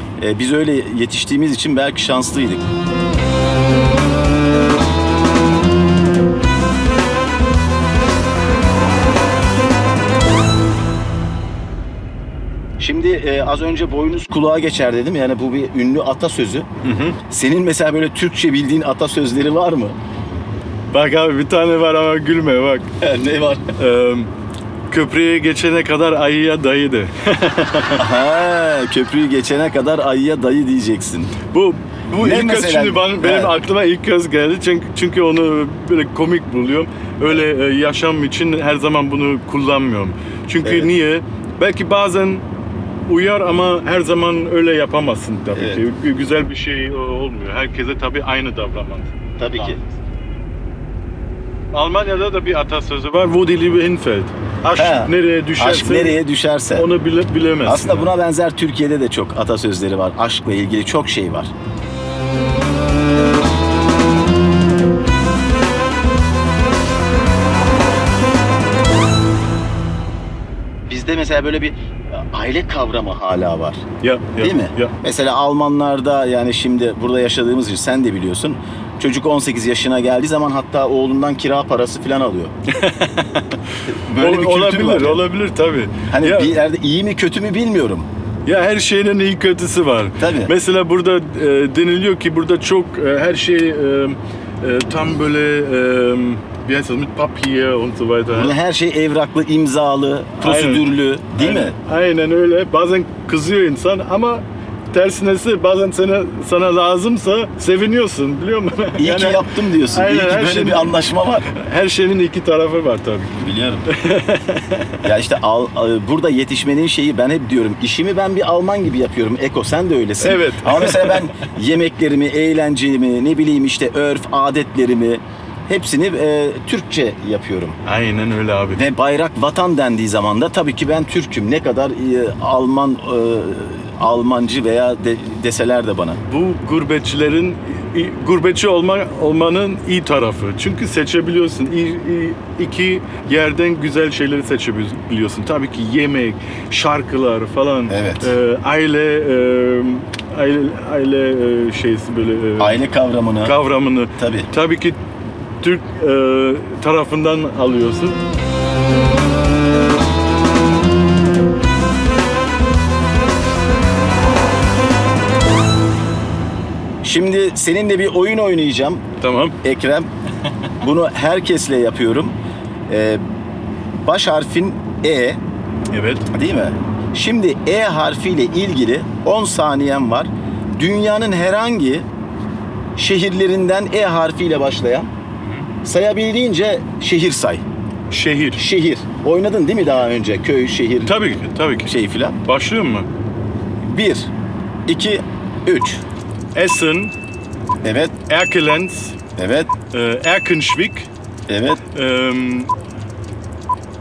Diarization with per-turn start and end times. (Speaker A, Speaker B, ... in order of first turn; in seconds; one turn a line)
Speaker A: 0.2-2.7
Speaker A: 12.8-16.7
Speaker B: 16.8-17.2
Speaker A: 17.3-19.9
Speaker B: 20.9-22.9
Speaker A: 23.0-23.7
Speaker B: 23.8-24.3
Speaker B: 24.9-28.0
Speaker A: 27.9-31.3
Speaker B: 31.5-42.4
Speaker A: 32.1-33.5
Speaker A: 40.6-40.9
Speaker B: 43.1-49.8
Speaker A: 45.5-45.8
Speaker A: 49.4-49.8
Speaker B: 51.7-56.2
Speaker A: 54.7-56.9
Speaker B: 56.7-58.1
Speaker A: 57.6-61.5
Speaker A: 70.9-73.8
Speaker B: 74.0-74.9
Speaker A: 74.4-82.5
Speaker B: 82.7-86.5
Speaker A: 83.8-85.2
Speaker A: 86.1-88.1
Speaker B: 88.5-98.5
Speaker A: 90.2-90.5
Speaker A: 98.3-101.7
Speaker B: 100.4-100.8
Speaker B: 101.3-110.9
Speaker A: 109.0-111.5
Speaker B: 111.5-115.0
Speaker A: 113.4-113.9
Speaker A: 115.0-127.8
Speaker B: 120.2-121.2
Speaker B: 127.8-128.8
Speaker A: 128.7-136.2
Speaker B: 136.3-152.8
Speaker A: 147.9-148.3
Speaker A: 152.6-153.6
Speaker B: 153.4-155.0
Speaker A: 154.2-154.5
Speaker B: 155.6-158.2
Speaker A: 167.0-169.0
Speaker B: 169.2-169.6
Speaker A: 169.6-170.1
Speaker A: 170.8-172.3
Speaker A: 172.9-173.2
Speaker A: 174.0-175.4
Speaker B: 175.9-176.3
Speaker A: 176.3-182.1
Speaker A: 182.9-185.1
Speaker B: 185.4-185.7
Speaker A: 185.8-187.6
Speaker B: 188.1-188.6
Speaker A: 188.6-191.1
Speaker B: 191.1-191.9
Speaker A: 191.8-192.4
Speaker B: 192.4-193.1
Speaker A: 193.8-194.3
Speaker A: 194.9-196.0
Speaker B: 196.5-197.1
Speaker A: 197.8-198.1
Speaker B: 198.3-199.2
Speaker A: 199.3-199.7
Speaker B: 199.9-201.1
Speaker A: 201.5-201.8
Speaker B: 201.9-202.7